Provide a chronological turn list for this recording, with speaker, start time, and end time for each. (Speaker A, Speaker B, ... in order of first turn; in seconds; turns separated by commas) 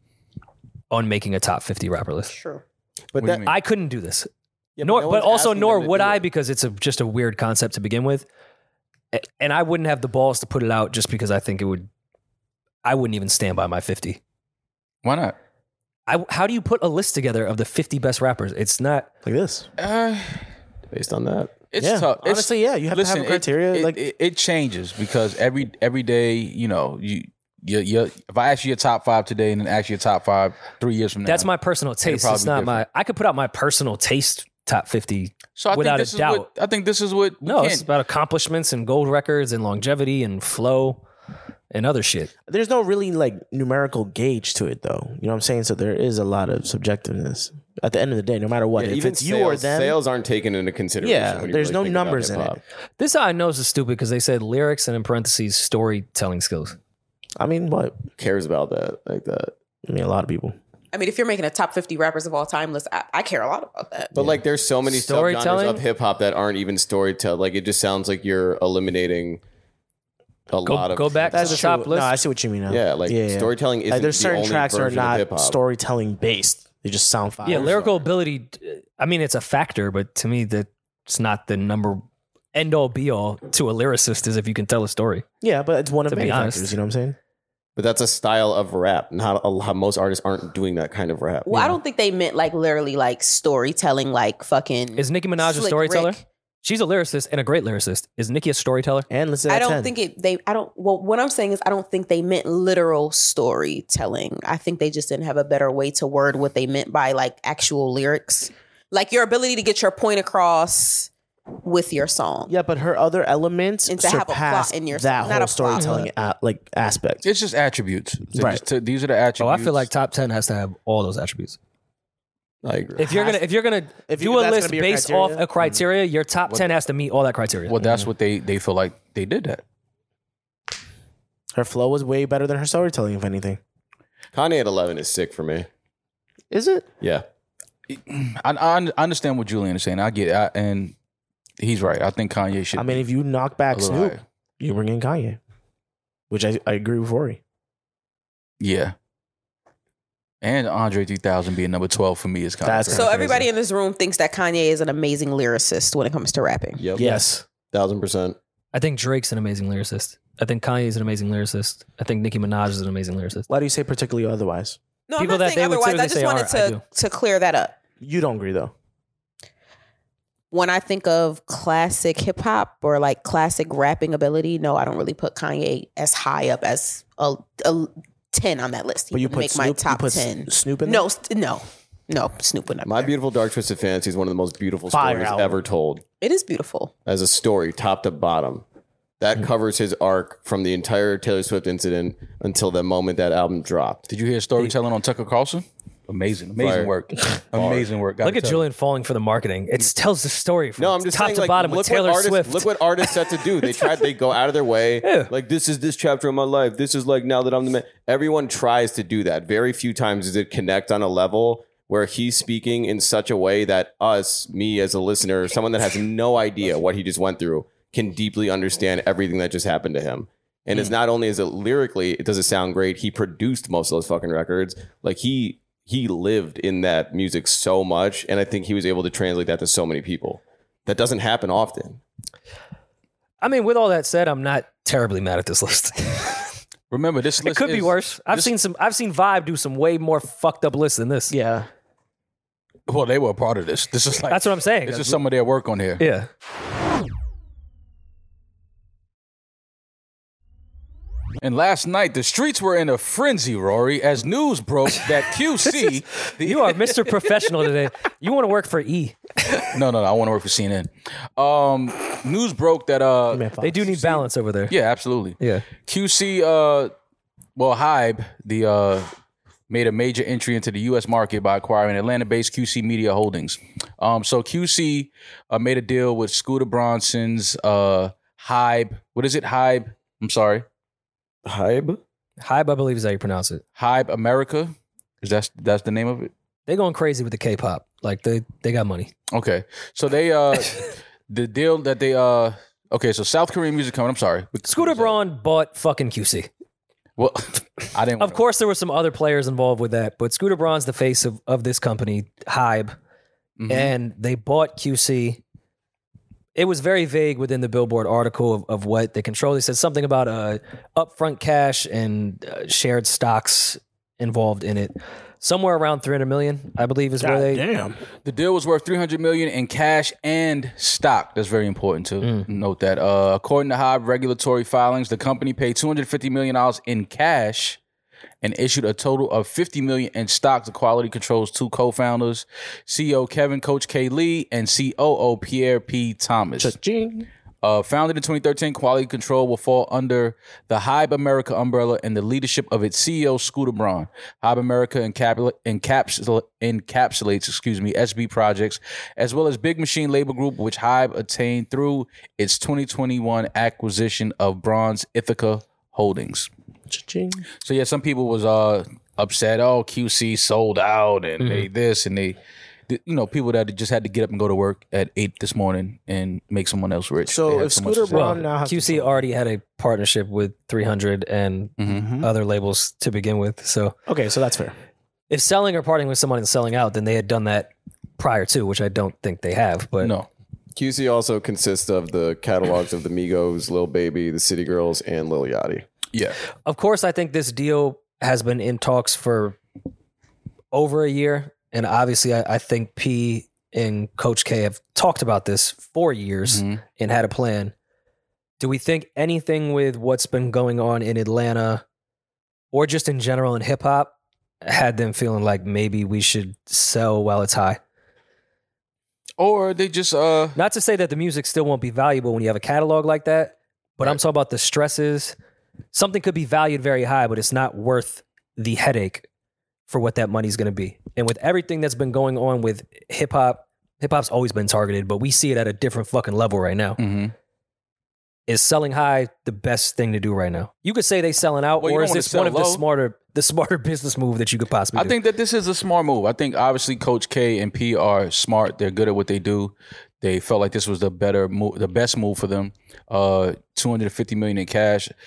Speaker A: 0.9-2.3, Speaker B: 2.3-2.6, Speaker C: 3.2-3.5, Speaker A: 3.2-4.3, Speaker D: 4.8-6.3, Speaker A: 4.8-8.3, Speaker A: 9.1-11.9, Speaker A: 12.8-14.2, Speaker C: 15.0-15.3, Speaker A: 16.1-19.1, Speaker E: 19.2-19.7, Speaker C: 19.8-20.5, Speaker D: 20.9-21.6, Speaker C: 21.7-31.5, Speaker E: 21.8-24.0, Speaker A: 31.3-36.5, Speaker C: 32.0-32.8, Speaker C: 35.6-37.9, Speaker A: 37.4-41.0, Speaker A: 41.7-42.3, Speaker E: 42.5-50.0, Speaker D: 48.8-52.6, Speaker E: 51.0-52.6, Speaker A: 53.0-56.8, Speaker E: 57.4-58.0, Speaker D: 58.2-59.5, Speaker E: 59.9-60.6, Speaker B: 60.9-64.1, Speaker D: 64.1-69.4, Speaker A: 64.9-65.8, Speaker D: 70.5-71.7, Speaker A: 70.7-72.2, Speaker E: 71.3-77.8, Speaker D: 72.7-75.6, Speaker A: 77.4-85.2, Speaker D: 77.5-78.0, Speaker E: 85.4-87.2, Speaker A: 86.1-86.7, Speaker D: 87.8-91.8, Speaker B: 91.5-96.2, Speaker A: 95.0-99.1, Speaker E: 99.1-99.9, Speaker B: 99.5-111.1, Speaker B: 111.6-112.5, Speaker E: 112.5-117.2, Speaker B: 113.9-116.0, Speaker C: 117.2-119.9, Speaker E: 118.3-118.6, Speaker A: 119.4-121.6, Speaker D: 122.6-123.3, Speaker A: 123.0-127.8, Speaker E: 123.1-123.4, Speaker E: 124.1-125.8, Speaker C: 127.7-129.6, Speaker E: 131.5-133.6, Speaker D: 134.3-135.7, Speaker E: 136.5-136.9, Speaker C: 137.9-140.9, Speaker C: 141.6-143.1, Speaker E: 142.8-145.4, Speaker C: 143.7-144.2, Speaker E: 146.3-147.4, Speaker C: 148.6-148.9, Speaker C: 150.4-153.4, Speaker E: 152.6-153.5, Speaker B: 152.9-156.8, Speaker D: 156.8-157.1, Speaker E: 156.9-157.4, Speaker A: 157.0-157.3, Speaker D: 157.7-158.4, Speaker A: 158.7-163.5, Speaker E: 163.5-164.8, Speaker B: 165.1-167.8, Speaker A: 165.2-166.8, Speaker E: 168.0-168.7, Speaker B: 170.5-183.1, Speaker E: 179.1-181.1, Speaker D: 182.8-186.0, Speaker E: 184.9-185.6, Speaker B: 186.2-186.9, Speaker D: 187.1-188.6, Speaker D: 189.2-194.0, Speaker C: 194.1-198.7, Speaker D: 196.6-196.9, Speaker D: 197.5-197.9, Speaker A: 198.2-203.1, Speaker D: 200.8-232.0, Speaker A: 205.0-205.3, Speaker A: 233.4-236.5, Speaker C: 236.9-238.5, Speaker A: 237.4-241.3, Speaker E: 241.3-241.7, Speaker C: 242.9-246.0, Speaker A: 244.3-245.2, Speaker A: 246.0-246.3, Speaker C: 251.4-257.3, Speaker A: 256.3-259.2, Speaker C: 259.5-266.9, Speaker E: 263.3-264.1, Speaker A: 263.6-264.7, Speaker A: 265.4-265.7, Speaker C: 267.6-269.1, Speaker C: 269.7-280.6, Speaker D: 281.4-282.0, Speaker A: 282.4-283.6, Speaker C: 283.8-286.3, Speaker A: 286.7-289.1, Speaker C: 289.3-295.2, Speaker A: 294.7-296.5, Speaker C: 297.2-298.4, Speaker A: 298.2-302.9, Speaker C: 303.6-303.9, Speaker A: 303.7-305.4, Speaker A: 306.6-317.6, Speaker E: 317.2-318.0, Speaker C: 318.2-327.8, Speaker C: 328.4-336.8, Speaker E: 336.6-337.3, Speaker C: 337.6-356.5, Speaker E: 356.9-357.5, Speaker C: 357.6-368.5, Speaker A: 361.4-361.7, Speaker E: 367.2-369.3, Speaker A: 368.1-374.0, Speaker C: 371.8-372.3, Speaker E: 374.1-374.8, Speaker A: 375.3-380.1, Speaker C: 380.0-380.3, Speaker D: 380.8-385.9, Speaker C: 386.1-386.4, Speaker A: 386.7-389.6, Speaker A: 390.7-397.7, Speaker C: 396.5-396.8, Speaker A: 398.6-401.8, Speaker A: 402.7-407.8, Speaker C: 409.4-410.6, Speaker A: 410.6-415.4, Speaker A: 415.9-419.3, Speaker A: 419.9-427.0, Speaker C: 427.0-427.3, Speaker A: 428.5-435.2, Speaker C: 431.8-432.8, Speaker C: 434.9-445.1